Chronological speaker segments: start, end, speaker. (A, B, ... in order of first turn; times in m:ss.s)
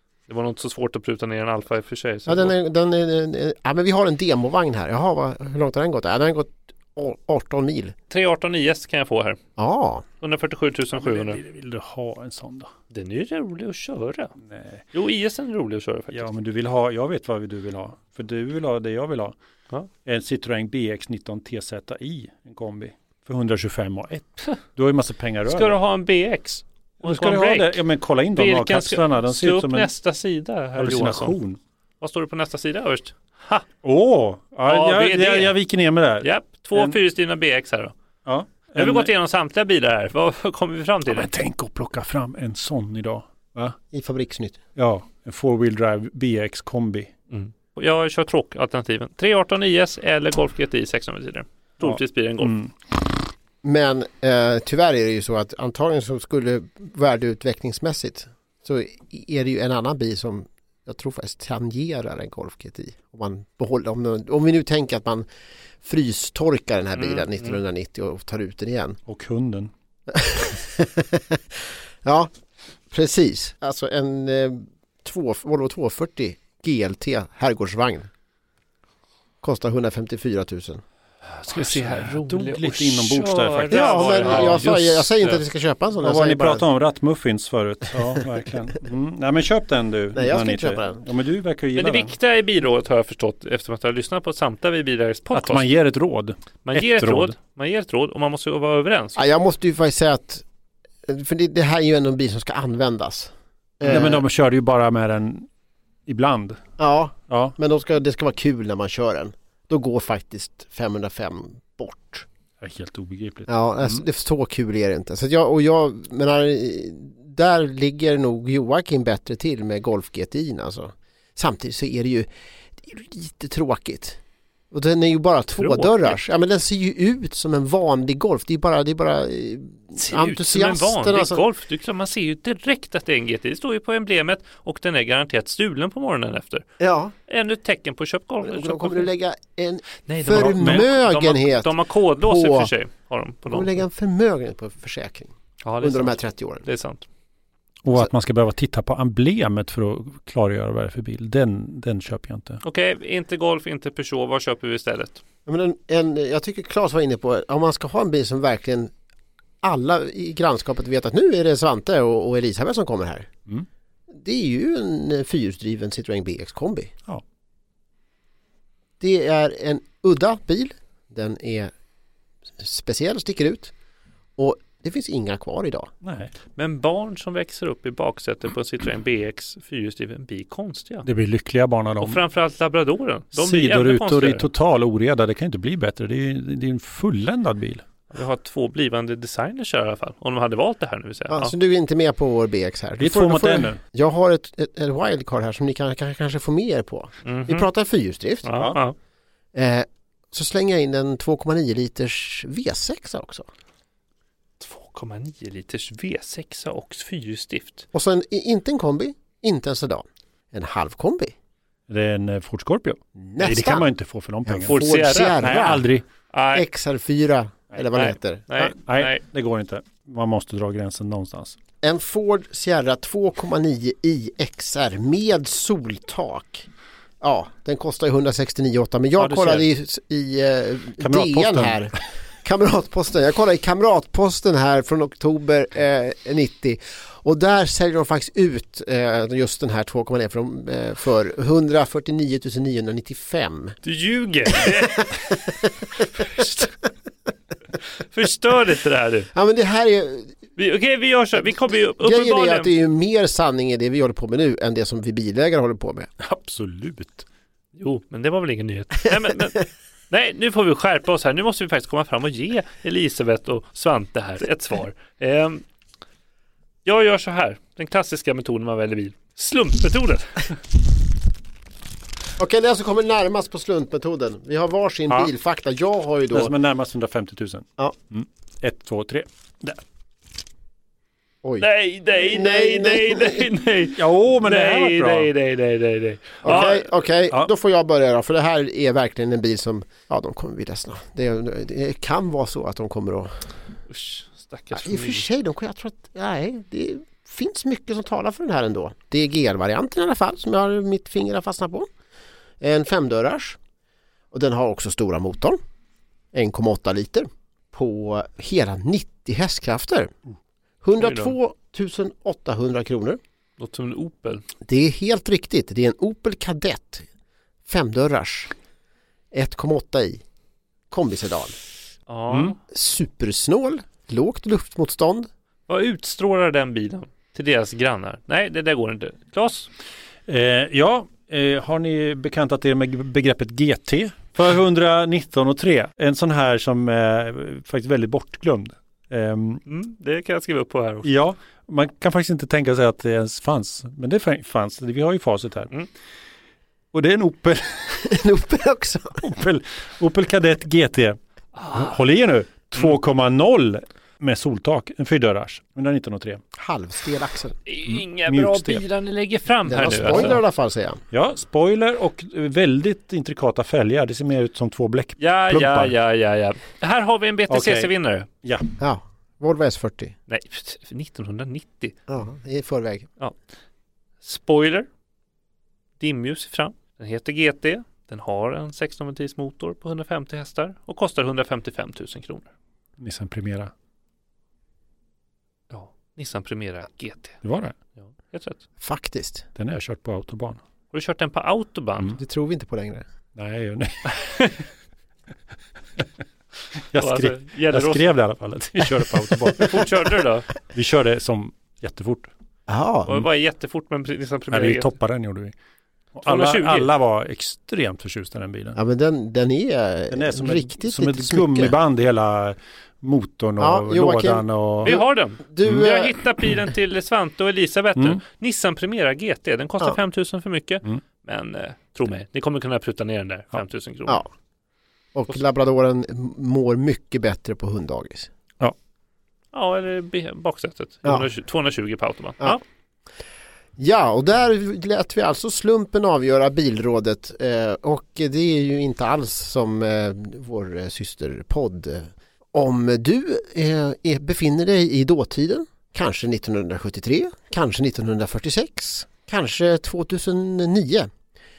0:00.3-0:02.5 A
0:02.3-0:07.9 B
0:08.1-0:09.4 A
0:09.6-0:10.0 B
0:10.2-0:11.4 A
0:10.9-0:12.7 C
0:12.9-0:14.3 A
0:14.4-0:14.8 C
0:14.9-0:16.3 A
0:16.1-0:19.3 C
0:20.0-0:25.8 C
0:25.5-0:27.8 A
0:27.0-0:29.9 C
0:28.3-0:31.4 A
0:30.8-0:31.6 C
0:32.0-0:33.6 A
0:33.8-0:37.0 C
0:34.6-0:35.5 A
0:36.2-0:37.9 A
0:38.2-0:39.1 C
0:38.7-0:41.3 A
0:41.0-0:43.8 C
0:43.9-0:44.6 B
0:44.8-0:47.1 C
0:47.3-0:52.5 A
0:51.8-0:52.7 C
0:53.6-1:05.3 B
1:05.8-1:09.0 B
1:07.0-1:07.6 A
1:09.1-1:09.7 C
1:10.1-1:12.3 B
1:12.9-1:18.1 B
1:19.4-1:20.8 B
1:21.4-1:25.4 A
1:21.5-1:24.6 C
1:23.7-1:26.6 B
1:26.0-1:32.1 C
1:30.1-1:31.0 B
1:31.8-1:35.6 A
1:35.3-1:37.3 C
1:36.6-1:39.2 A
1:39.2-1:40.4 B
1:41.0-1:44.2 B
1:43.8-1:45.5 C
1:46.1-1:46.6 C
1:46.8-1:52.3 B
1:47.3-1:47.5 C
1:52.6-1:54.0 C
1:53.5-2:04.2 B
2:04.7-2:11.4 B
2:05.6-2:06.2 A
2:09.9-2:16.6 A
2:16.8-2:17.1 B
2:17.3-2:19.1 A
2:18.4-2:22.7 B
2:20.0-2:23.8 A
2:20.6-2:20.8 C
2:23.4-2:26.6 B
2:25.6-2:27.0 A
2:27.8-2:32.6 C
2:32.6-2:35.2 A
2:35.4-2:38.9 B
2:39.6-2:43.3 B
2:44.1-2:46.9 B
2:49.0-2:51.7 B
2:52.6-2:53.7 B
2:54.4-2:55.9 B
2:56.0-2:56.3 C
2:56.6-3:01.0 A
3:01.0-3:02.2 C
3:02.0-3:04.5 A
3:03.4-3:07.8 C
3:08.1-3:11.5 A
3:11.3-3:18.5 B
3:13.0-3:13.8 C
3:17.2-3:17.6 A
3:18.4-3:18.9 A
3:19.5-3:23.5 B
3:24.6-3:27.8 A
3:27.9-3:31.3 B
3:31.9-3:36.0 C
3:33.2-3:33.9 B
3:34.4-3:35.9 B
3:34.7-3:35.4 A
3:36.3-3:36.6 A
3:36.5-3:38.7 B
3:37.9-3:39.2 A
3:38.9-3:41.6 C
3:41.8-3:46.7 B
3:47.2-4:03.8 B
3:49.2-3:49.7 C
3:51.0-3:51.8 C
4:03.8-4:05.4 A
4:05.3-4:05.7 B
4:06.1-4:06.7 A
4:08.0-4:09.3 A
4:09.3-4:10.4 B
4:10.6-4:12.7 A
4:11.5-4:16.1 B
4:16.2-4:17.2 C
4:17.8-4:25.6 A
4:26.8-4:30.6 A
4:32.4-4:36.5 B
4:36.3-4:39.8 C
4:41.6-4:46.8 A
4:42.2-4:43.5 B
4:44.0-4:45.3 C
4:46.4-4:53.3 B
4:53.9-4:55.3 A
4:54.7-5:01.9 B
5:02.6-5:03.6 B
5:04.3-5:05.6 B
5:06.3-5:10.1 B
5:10.8-5:13.2 B
5:11.0-5:11.3 A
5:13.6-5:14.4 A
5:14.6-5:17.1 B
5:17.6-5:18.5 B
5:19.3-5:20.2 B
5:20.9-5:21.5 B
5:22.1-5:22.6 A
5:22.7-5:25.3 B
5:25.7-5:29.7 A
5:30.3-5:39.6 C
5:39.7-5:41.1 A
5:41.0-5:45.7 C
5:46.9-5:48.1 C
5:48.0-5:49.2 B
5:49.2-5:51.2 C
5:51.6-5:52.0 A
5:51.7-5:56.4 C
5:56.6-5:57.6 B
5:57.7-6:00.4 A
5:57.9-5:58.8 C
5:59.7-6:01.0 B
6:00.0-6:00.3 C
6:01.1-6:05.9 C
6:05.2-6:08.3 A
6:07.5-6:07.9 C
6:08.4-6:08.7 C
6:08.8-6:10.2 B
6:10.3-6:12.0 A
6:12.1-6:13.1 B
6:14.2-6:14.9 A
6:16.0-6:22.5 A
6:23.0-6:23.7 C
6:25.7-6:27.4 A
6:27.4-6:27.7 C
6:28.0-6:28.6 A
6:28.8-6:29.4 B
6:29.6-6:30.6 C
6:30.9-6:32.2 A
6:32.2-6:33.0 B
6:33.4-6:34.5 C
6:34.1-6:34.5 A
6:36.9-6:40.1 C
6:37.0-6:38.1 A
6:39.6-6:40.4 A
6:40.7-6:42.3 C
6:42.7-6:43.2 B
6:43.0-6:44.9 A
6:44.5-6:45.5 C
6:46.1-6:48.8 C
6:46.2-6:46.9 A
6:48.7-6:51.8 B
6:50.1-6:55.0 C
6:53.6-6:56.2 B
6:54.8-7:04.2 A
7:05.1-7:08.3 B
7:09.5-7:12.6 A
7:13.8-7:31.1 B